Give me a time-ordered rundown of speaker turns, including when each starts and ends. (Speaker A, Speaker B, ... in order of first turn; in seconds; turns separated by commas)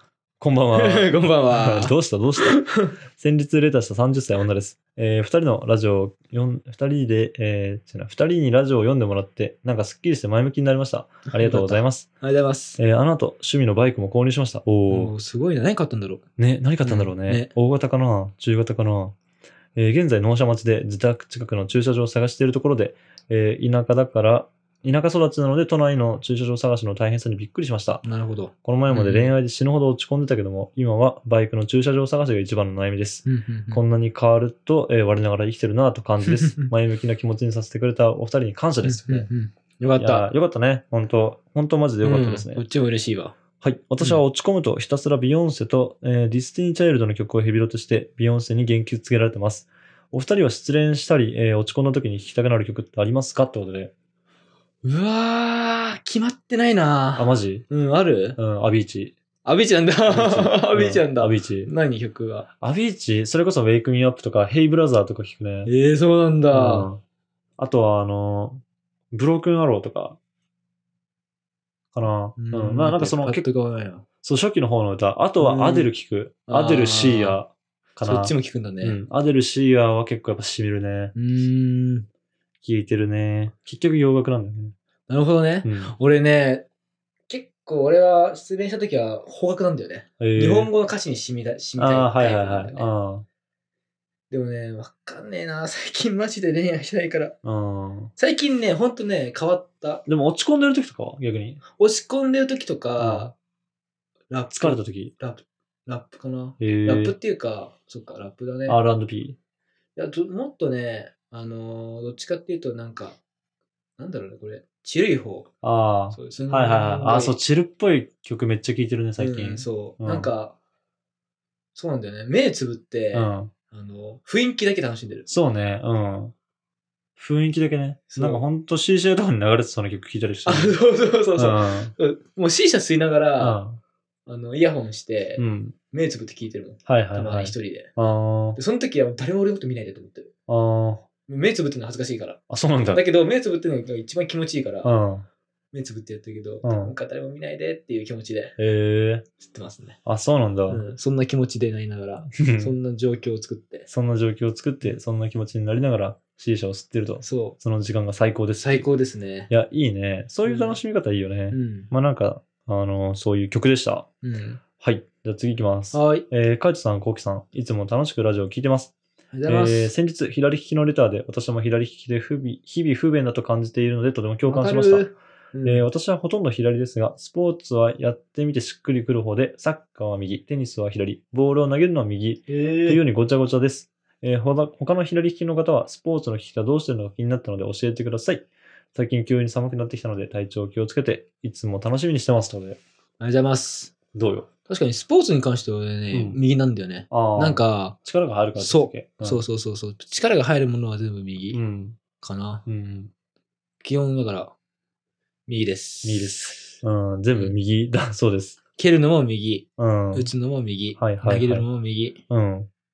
Speaker A: 0.4-2.6, Speaker B: 0.7-2.9, Speaker A: 3.1-12.1, Speaker B: 11.3-12.8, Speaker A: 12.8-15.1, Speaker B: 14.9-16.2, Speaker A: 16.4-19.1, Speaker B: 16.8-17.5, Speaker A: 19.7-28.0, Speaker B: 28.0-29.3, Speaker A: 28.6-39.3, Speaker B: 33.2-33.8, Speaker B: 36.2-36.7, Speaker B: 38.8-40.3, Speaker A: 40.0-42.6, Speaker B: 42.0-43.3, Speaker A: 43.6-53.9, Speaker B: 54.8-58.4, Speaker A: 57.1-57.6, Speaker A: 58.4-59.1, Speaker B: 59.4-62.5, Speaker A: 60.1-61.7, Speaker A: 62.6-65.7, Speaker B: 65.7-66.9, Speaker A: 66.5-67.0, Speaker A: 67.6-70.2, Speaker A: 71.9-73.4, Speaker B: 72.4-74.0, Speaker A: 74.2-81.1, Speaker B: 75.4-75.9, Speaker B: 76.5-77.4, Speaker B: 78.0-79.0, Speaker B: 81.1-82.1, Speaker A: 82.6-84.7, Speaker B: 85.1-86.6, Speaker A: 85.6-85.9, Speaker B: 87.3-92.9, Speaker A: 90.2-90.7, Speaker A: 91.8-93.2, Speaker B: 94.3-97.3, Speaker A: 97.4-98.1, Speaker B: 98.2-100.0, Speaker A: 100.1-101.6, Speaker B: 101.8-103.3, Speaker A: 103.0-103.3, Speaker B: 104.3-108.8, Speaker A: 104.5-105.1, Speaker A: 106.6-107.1, Speaker A: 108.7-109.4, Speaker B: 110.0-113.2, Speaker B: 114.0-115.5, Speaker A: 115.6-120.3, Speaker B: 116.1-117.4, Speaker B: 119.2-120.5, Speaker B: 121.7-125.3, Speaker A: 123.1-123.5, Speaker A: 125.3-126.3, Speaker A: 127.2-130.8, Speaker B: 128.1-128.4, Speaker B: 130.4-133.6, Speaker A: 131.4-131.9, Speaker A: 133.4-133.8, Speaker B: 134.3-137.9, Speaker A: 135.4-135.7, Speaker A: 136.8-138.6, Speaker B: 138.6-140.3, Speaker A: 140.5-141.0, Speaker B: 141.3-144.9, Speaker A: 142.5-143.0, Speaker A: 144.8-145.2, Speaker B: 145.7-148.5, Speaker A: 146.6-146.9, Speaker A: 148.6-149.2, Speaker B: 149.4-150.0, Speaker A: 150.0-150.8, Speaker B: 150.7-153.9, Speaker A: 152.3-152.7, Speaker A: 153.9-158.9, Speaker B: 157.2-157.6, Speaker B: 158.6-159.5, Speaker A: 159.5-164.1, Speaker B: 160.4-160.8, Speaker B: 161.5-161.9, Speaker B: 164.2-164.6, Speaker A: 164.8-168.9, Speaker B: 165.9-166.3, Speaker B: 169.3-169.9, Speaker A: 169.4-175.1, Speaker B: 174.4-175.8, Speaker A: 175.6-192.8, Speaker B: 182.5-183.0, Speaker B: 193.2-193.9, Speaker A: 194.1-194.5, Speaker B: 194.7-198.0, Speaker A: 196.1-196.4, Speaker A: 197.1-199.4, Speaker B: 198.6-201.6, Speaker A: 201.5-202.0, Speaker B: 202.2-202.6, Speaker A: 202.7-203.1, Speaker B: 203.8-204.5, Speaker B: 205.5-206.8, Speaker A: 206.0-208.6, Speaker B: 208.8-212.2, Speaker A: 209.8-210.3, Speaker A: 211.0-211.7, Speaker A: 212.3-212.7